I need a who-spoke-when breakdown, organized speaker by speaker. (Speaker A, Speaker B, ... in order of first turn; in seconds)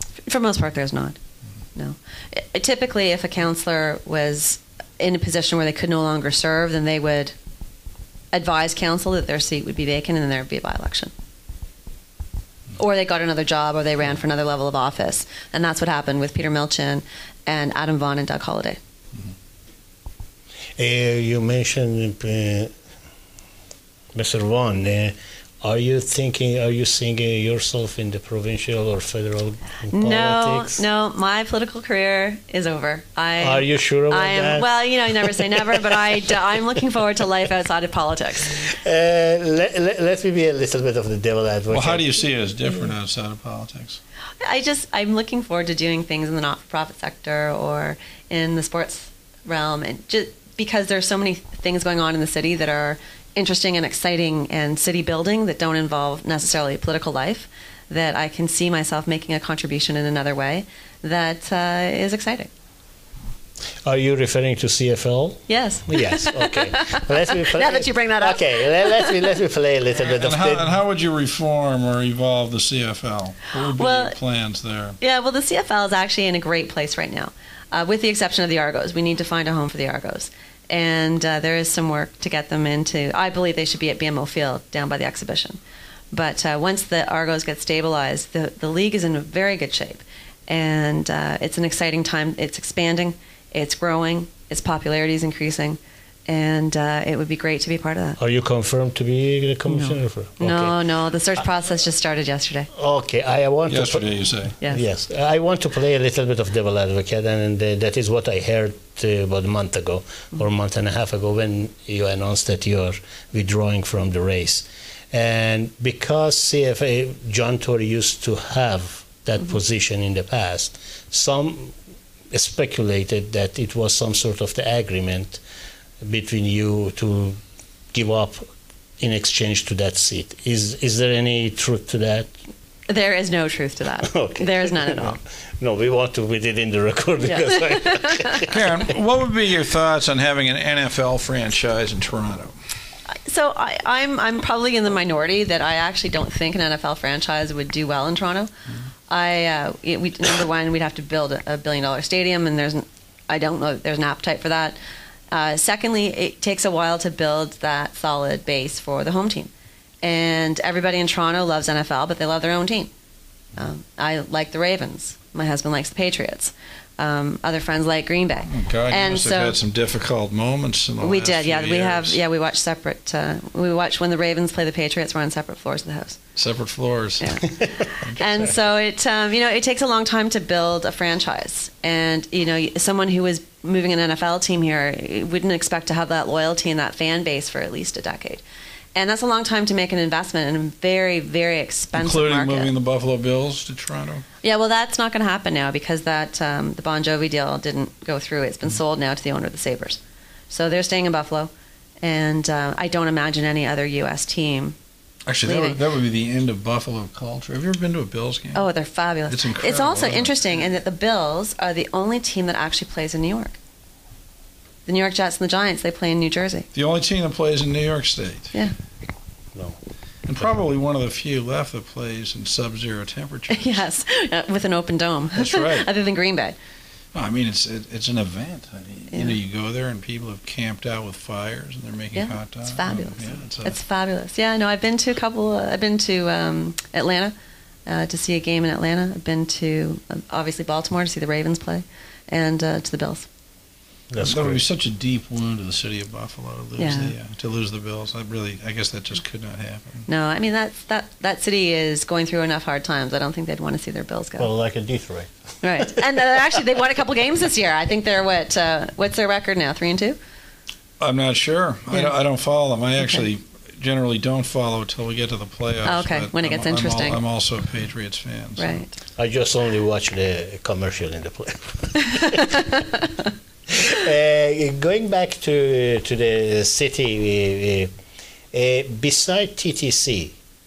Speaker A: 0.3-1.2, 1.8-7.3, 8.3-11.1, 12.8-18.8, 29.9-38.6, 44.4-62.5, 65.5-69.3, 73.7-74.2, 75.0-85.6, 86.1-98.2, 99.7-102.7, 132.9-135.2, 137.2-138.5, 143.1-148.5, 149.1-154.8, 155.3-159.5, 160.0-162.9, 163.6-169.6, 171.0-176.2, 177.2-188.4, 188.9-192.8, 194.4-201.5, 202.0-204.8, 205.4-205.8, 208.6-213.6, 214.9-216.7, 223.5-226.6, 229.1-229.4, 232.2-237.3, 237.9-243.3, 246.8-247.1, 250.1-254.5, 255.6-260.2, 263.0-263.2, 265.9-267.2, 268.6-269.0, 272.0-273.0
Speaker B: 20.8-22.7, 24.1-30.8, 33.4-36.0, 38.5-42.1, 63.8-70.7, 98.2-100.8, 102.7-121.8, 122.3-125.4, 126.0-127.4, 127.9-128.4, 129.0-132.3, 134.0-138.6, 244.1-244.6, 254.4-256.3, 269.2-272.6, 273.7-277.9, 278.5-280.4
Speaker C: 41.7-44.0, 70.0-75.0, 103.7-104.5, 138.4-142.5, 168.5-172.2, 176.4-177.4, 178.0-178.5, 191.9-194.2, 205.3-208.7, 209.3-210.6, 216.7-218.6, 220.3-223.8, 225.3-225.9, 227.1-233.8, 244.2-250.1, 261.0-268.8